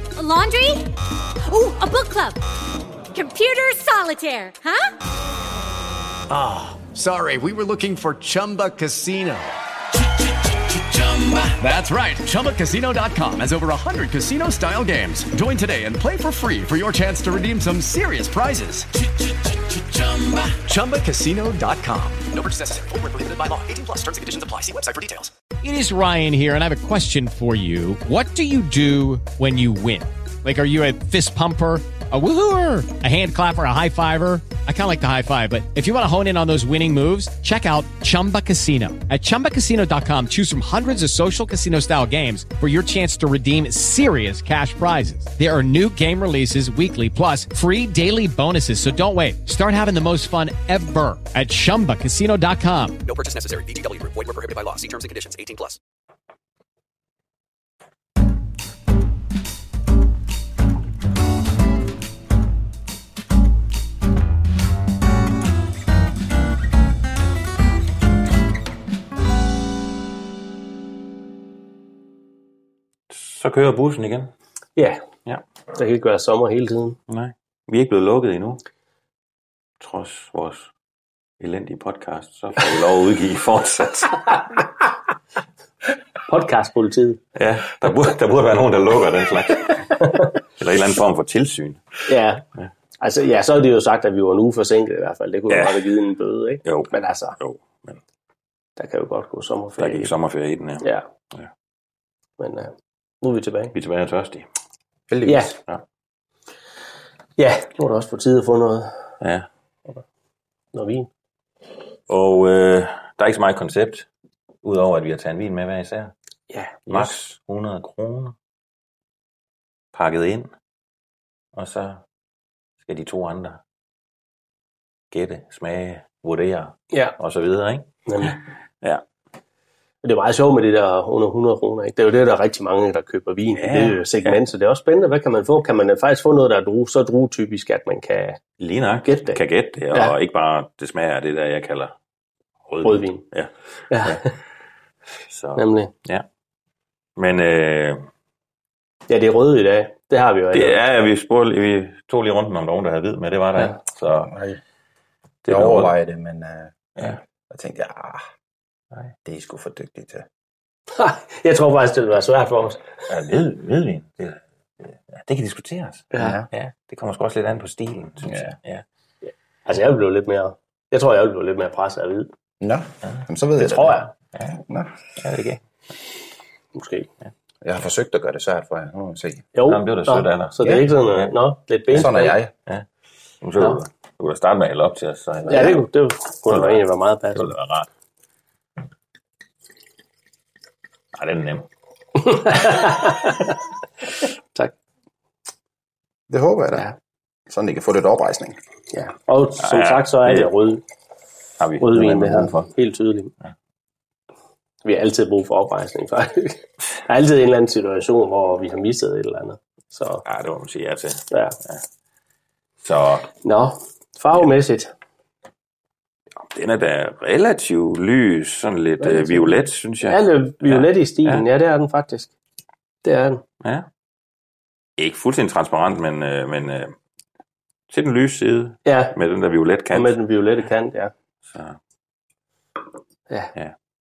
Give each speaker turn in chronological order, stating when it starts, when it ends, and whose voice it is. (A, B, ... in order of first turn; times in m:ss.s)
0:00.2-0:02.4 A
0:03.1-0:04.9 A
0:06.3-0:25.3 B
0:25.6-0:53.0 C
0:53.1-0:55.8 D
1:13.1-1:14.3 E
1:14.8-1:15.0 F
1:15.7-1:17.0 F
1:17.1-1:18.6 E
1:19.8-1:20.7 E
1:21.4-1:24.6 E
1:26.3-1:27.2 F
1:27.4-1:32.0 E
1:30.0-1:30.3 F
1:32.1-1:32.4 F
1:33.0-1:37.4 F
1:35.5-1:35.9 E
1:36.6-1:38.0 E
1:38.8-1:40.1 F
1:39.8-1:41.5 E
1:40.8-1:41.0 F
1:42.4-1:43.7 F
1:43.7-1:44.5 E
1:45.1-1:45.6 G
1:45.2-1:45.6 F
1:47.4-1:49.0 F
1:49.2-1:49.5 E
1:50.7-1:51.1 F
1:52.1-1:54.1 E
1:54.6-1:56.1 E
1:56.5-1:57.2 F
1:56.9-1:58.3 E
1:59.9-2:00.5 E
2:01.5-2:02.0 E
2:02.8-2:03.6 E
2:05.1-2:09.0 E
2:08.1-2:08.4 F
2:10.0-2:18.4 F
2:13.6-2:14.4 E
2:18.6-2:21.9 E
2:19.0-2:19.4 F
2:22.7-2:24.3 E
2:22.8-2:23.2 F
2:23.9-2:24.3 F
2:25.3-2:26.2 E
2:25.6-2:25.9 F
2:27.2-2:28.0 E
2:29.1-2:30.8 F
2:30.5-2:34.3 E
2:34.2-2:34.6 G
2:35.4-2:35.9 E
2:35.5-2:38.2 G
2:39.2-2:40.2 G
2:40.9-2:42.8 F
2:43.1-2:48.8 E
2:46.1-2:46.4 F
2:46.2-2:46.5 G
2:49.6-2:52.3 F
2:52.6-2:54.0 G
2:53.6-2:54.1 F
2:54.6-2:54.9 G
2:55.1-2:55.6 E
2:56.7-2:57.1 F
2:57.6-2:59.5 G
2:59.5-3:02.4 F
2:59.6-3:01.3 E
3:01.9-3:02.5 G
3:03.4-3:05.8 E
3:05.4-3:07.5 F
3:06.5-3:07.9 E
3:11.1-3:11.7 E
3:12.2-3:13.6 F
3:16.3-3:16.9 G
3:17.5-3:18.6 G
3:18.9-3:20.8 F
3:19.6-3:20.5 E
3:21.6-3:22.7 E
3:21.8-3:23.3 F
3:24.8-3:30.2 F
3:30.2-3:31.8 E
3:31.3-3:31.6 F
3:32.8-3:33.3 E
3:33.4-3:34.9 F
3:36.4-3:41.4 E
3:39.0-3:42.3 F
3:43.0-3:43.4 F
3:43.6-3:43.9 E
3:45.0-3:46.9 E
3:47.9-3:50.2 E
3:48.8-3:49.1 F
3:49.9-3:51.1 F
3:51.5-3:51.8 E